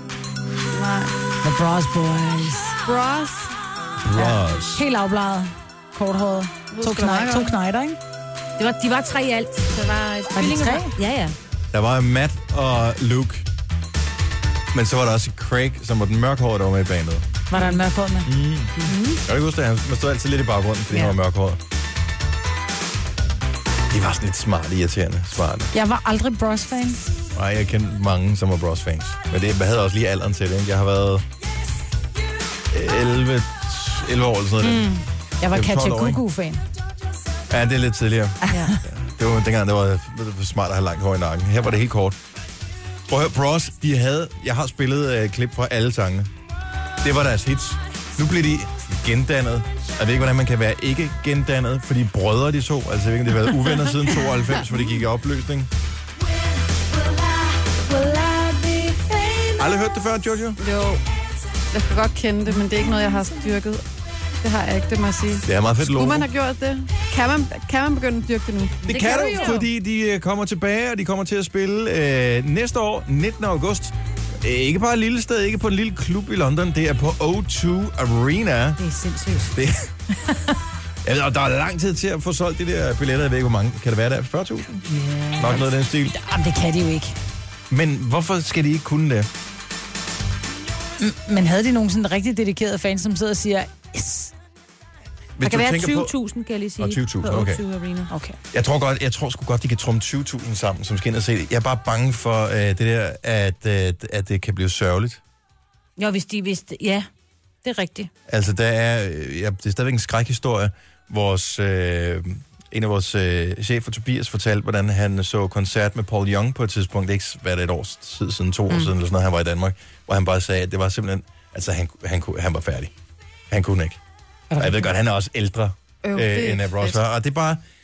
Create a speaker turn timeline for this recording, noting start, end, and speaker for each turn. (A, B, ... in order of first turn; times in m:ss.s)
0:00.7-0:01.2 A
0:01.4-0:02.8 B
0:02.8-0:03.6 A
0:04.0-0:04.8 C
0:04.2-0:08.0 B
0:06.7-0:07.6 A
0:08.6-0:11.4 D
0:10.3-0:10.9 B
0:11.7-0:13.4 C
0:14.7-0:17.3 C
0:17.5-0:18.3 B
0:17.5-0:17.8 D
0:18.2-0:21.6 C
0:18.8-0:19.2 D
0:23.9-0:25.7 C
0:25.7-0:27.0 B
0:27.3-0:31.2 C
0:32.7-0:34.9 C
0:34.6-0:36.6 B
0:35.5-0:36.2 C
0:37.5-0:42.2 C
0:38.4-0:38.8 B
0:43.1-0:46.3 C
0:47.0-0:55.7 C
0:57.9-0:59.5 D
0:59.6-1:00.6 C
1:00.6-1:01.0 A
1:01.7-1:03.8 A
1:04.4-1:08.8 A
1:05.4-1:06.3 C
1:08.8-1:18.8 C
1:09.0-1:09.6 D
1:09.1-1:09.5 B
1:18.8-1:19.6 D
1:19.5-1:19.9 C
1:21.0-1:24.7 C
1:24.8-1:25.7 D
1:25.4-1:26.1 C
1:26.0-1:27.2 B
1:27.7-1:29.3 C
1:31.0-1:34.3 B
1:35.4-1:36.1 C
1:35.4-1:38.1 D
1:36.8-1:37.6 C
1:38.1-1:38.4 B
1:38.5-1:45.2 C
1:46.0-1:47.1 D
1:47.6-1:48.1 D
1:48.3-2:02.9 C
2:03.5-2:04.0 C
2:04.5-2:04.9 B
2:04.6-2:07.6 C
2:06.0-2:07.0 A